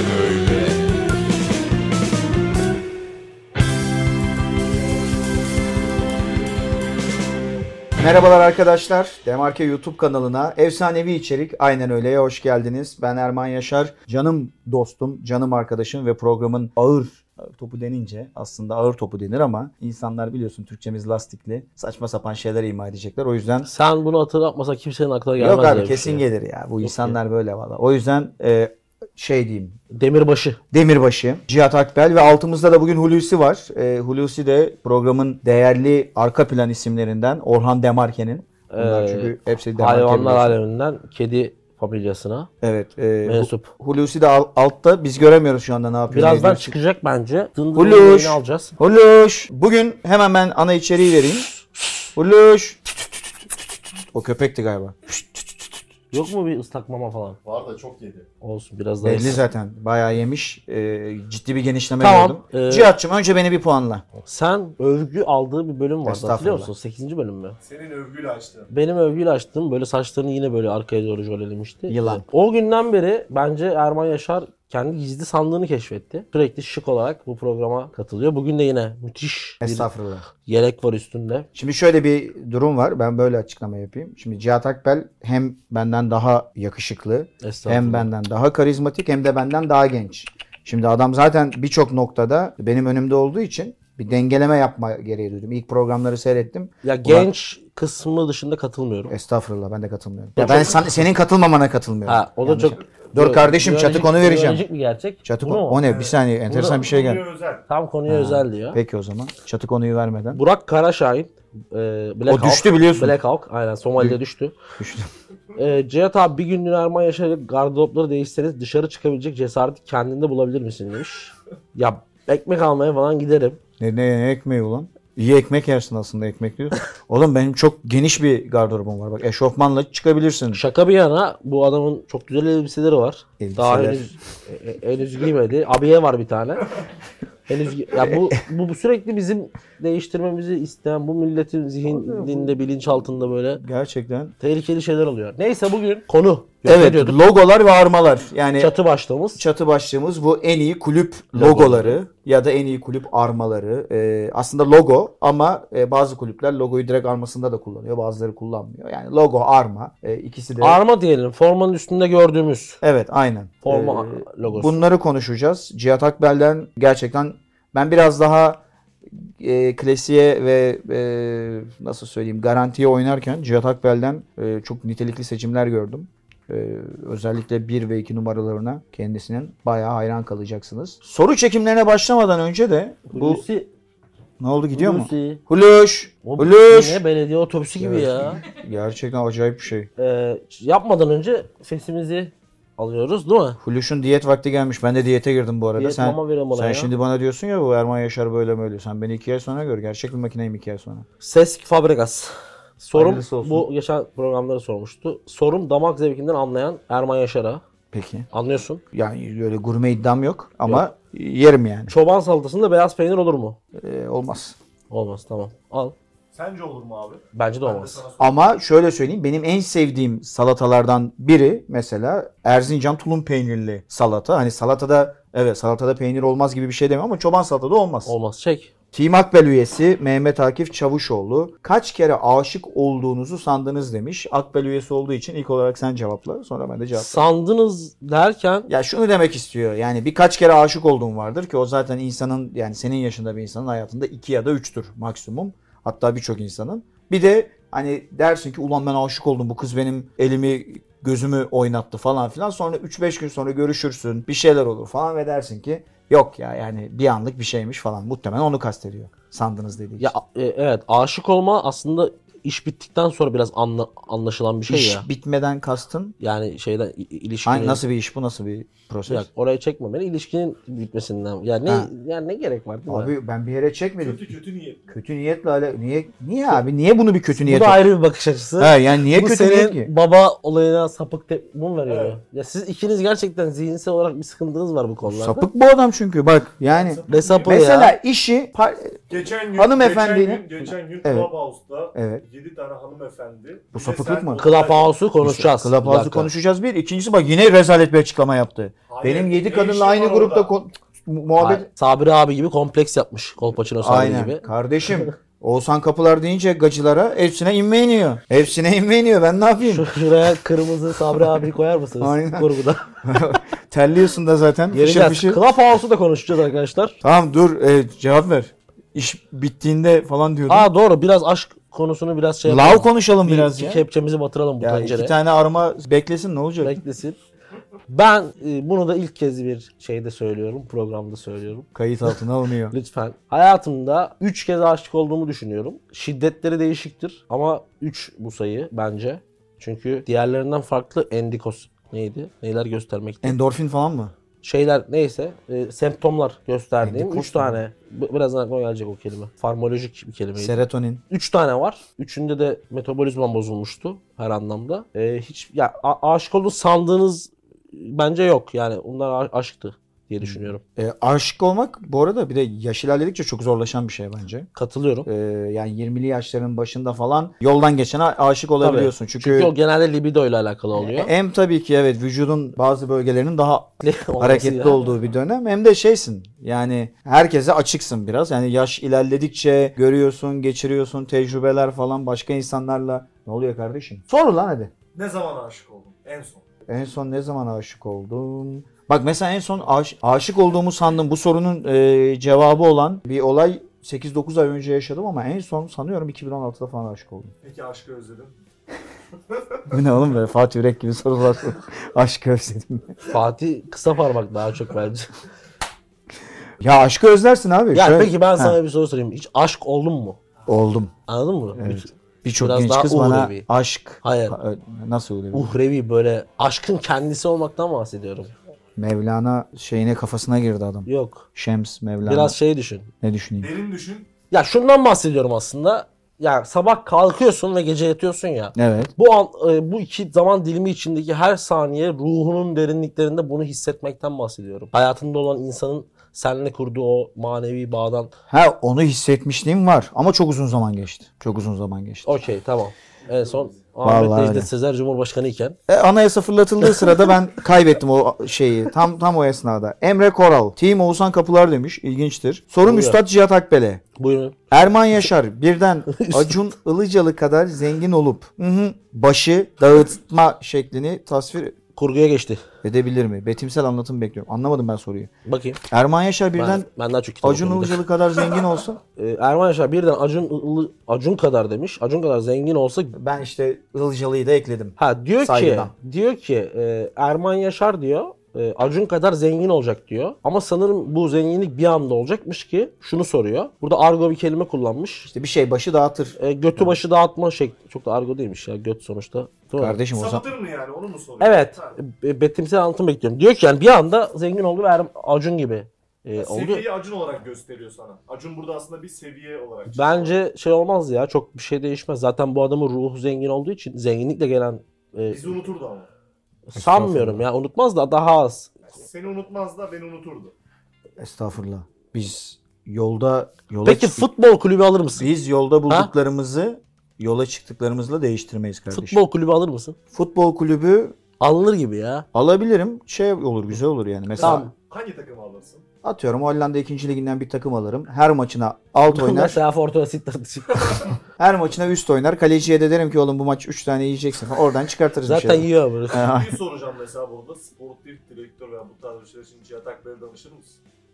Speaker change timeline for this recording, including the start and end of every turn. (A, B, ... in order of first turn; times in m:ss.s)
0:08.0-0:23.7 A
0:23.6-0:26.2 B
0:25.4-0:29.8 A
0:26.8-0:27.2 B
0:29.9-0:30.6 B
0:30.7-0:40.6 A
0:38.7-0:42.5 B
0:42.6-0:46.7 A
0:43.2-0:43.7 B
0:46.1-0:48.7 B
0:47.7-0:51.5 A
0:52.2-0:56.3 A
0:56.1-0:57.4 B
0:57.4-0:58.3 C
0:58.4-0:59.4 B
0:59.0-1:04.0 A
1:02.0-1:02.9 B
1:04.2-1:07.6 B
1:06.0-1:06.7 A
1:07.6-1:08.7 C
1:08.7-1:19.9 B
1:11.9-1:12.2 A
1:19.6-1:20.2 A
1:20.4-1:21.5 B
1:21.6-1:37.3 A
1:27.4-1:28.1 B
1:36.8-1:39.1 B
1:39.1-1:44.6 A
1:40.4-1:40.9 B
1:40.4-1:40.8 C
1:42.1-1:45.9 B
1:45.2-1:47.3 A
1:45.8-1:46.2 C
1:46.5-1:46.9 B
1:46.7-1:47.6 C
1:47.7-1:48.8 B
1:48.1-1:50.4 A
1:50.3-1:54.6 B
1:52.3-1:53.2 A
1:54.8-1:55.1 A
1:55.6-2:03.6 B
2:03.8-2:10.6 A
2:10.5-2:16.7 B
2:13.4-2:14.2 A
2:17.5-2:23.6 B
2:17.9-2:18.4 A
2:21.9-2:24.3 A
2:24.4-2:27.2 B
2:26.6-2:28.7 A
2:28.6-2:29.4 B
2:29.4-2:40.8 A
2:31.3-2:32.0 B
2:40.6-2:42.8 B
2:42.8-2:48.6 A
2:43.6-2:44.8 B
2:49.2-3:03.4 A
3:03.1-3:03.7 B
3:04.4-3:07.0 A
3:04.7-3:05.4 B
3:06.2-3:08.4 B
3:07.8-3:09.9 A
3:10.0-3:13.6 B
3:13.6-3:21.1 A
3:15.8-3:16.9 B
3:21.2-3:27.6 B
3:22.9-3:23.7 A
3:27.9-3:28.3 A
3:28.3-3:28.8 B
3:28.9-3:31.9 A
3:31.9-3:33.6 B
3:33.8-3:34.6 A
3:34.9-3:35.9 B
3:36.3-3:38.4 C
3:37.3-3:38.0 B
3:38.2-3:48.1 A
3:48.1-3:48.7 B
3:48.9-3:57.2 A
3:56.9-3:58.7 B
3:58.7-4:20.1 A
4:20.0-4:25.1 B
4:24.7-4:26.1 A
4:26.2-4:27.8 B
4:27.4-4:29.3 A
4:29.1-4:33.1 B
4:32.9-4:34.3 A
4:34.0-4:35.0 C
4:34.9-4:37.8 A
4:37.4-4:45.4 B
4:38.6-4:39.9 A
4:41.9-4:42.2 C
4:45.1-4:51.3 A
4:46.7-4:47.5 C
4:47.1-4:47.9 B
4:49.1-4:55.0 C
4:51.9-4:52.2 A
4:53.7-4:54.4 A
4:54.4-4:56.3 B
4:55.2-5:01.7 A
4:58.9-5:00.5 C
5:01.4-5:04.4 B
5:03.8-5:09.9 A
5:09.6-5:12.9 B
5:12.0-5:12.5 A
5:13.0-5:15.4 A
5:14.7-5:17.0 B
5:17.0-5:20.7 A
5:20.5-5:25.1 B
5:22.4-5:23.9 A
5:24.6-5:26.8 A
5:26.6-5:27.2 B
5:27.9-5:32.1 B
5:31.8-5:32.8 A
5:32.7-5:43.4 B
5:43.2-5:44.1 A
5:44.4-5:50.6 B
5:46.8-5:47.6 A
5:50.4-5:51.0 A
5:51.1-6:00.6 B
6:00.2-6:04.5 A
6:04.6-6:05.1 B
6:05.1-6:09.5 A
6:08.6-6:11.1 B
6:10.8-6:24.7 A
6:13.8-6:14.9 B
6:24.9-6:26.4 C
6:26.7-6:37.3 A
6:37.4-6:38.4 C
6:39.7-6:42.9 A
6:43.1-6:45.1 B
6:46.6-6:48.6 A
6:47.7-6:50.2 B
6:50.4-6:50.9 A
6:51.1-6:53.4 B
6:51.6-6:55.6 A
6:54.0-6:54.4 B
6:55.3-6:58.3 B
6:58.8-7:02.4 A
7:00.9-7:01.3 B
7:02.0-7:02.9 B
7:03.0-7:03.5 A
7:03.4-7:04.1 C
7:04.3-7:18.1 B
7:08.6-7:08.9 A
7:18.3-7:22.2 A
7:22.0-7:25.6 B
7:23.1-7:23.5 C
7:23.8-7:24.5 A
7:25.7-7:33.8 A
7:26.7-7:26.9 B
7:32.6-7:33.0 B
7:34.0-7:34.5 B
7:34.5-7:41.6 A
7:35.9-7:36.4 B
7:41.8-7:42.4 B
7:42.6-7:45.1 A
7:45.2-7:45.6 B
7:45.7-7:46.7 A
7:46.4-7:47.8 B
7:47.2-7:48.8 A
7:49.0-7:52.9 B
7:52.9-7:55.7 A
7:54.8-8:05.1 B
8:05.1-8:06.8 A
8:06.2-8:09.8 B
8:09.6-8:10.3 A
8:09.9-8:11.8 C
8:11.2-8:16.7 B
8:16.2-8:20.1 C
8:19.7-8:25.3 B
8:25.1-8:25.9 C
8:26.5-8:28.5 B
8:26.5-8:27.2 A
8:28.8-8:30.3 C
8:31.0-8:34.1 A
8:33.6-8:35.1 B
8:35.0-8:39.0 A
8:38.7-8:39.8 B
8:39.9-8:41.0 A
8:41.2-8:42.0 B
8:42.1-8:44.4 A
8:44.1-8:45.6 C
8:44.2-8:44.5 B
8:45.8-8:49.4 A
8:48.9-8:50.9 B
8:51.2-8:56.4 A
8:55.0-8:56.1 B
8:56.0-9:00.6 C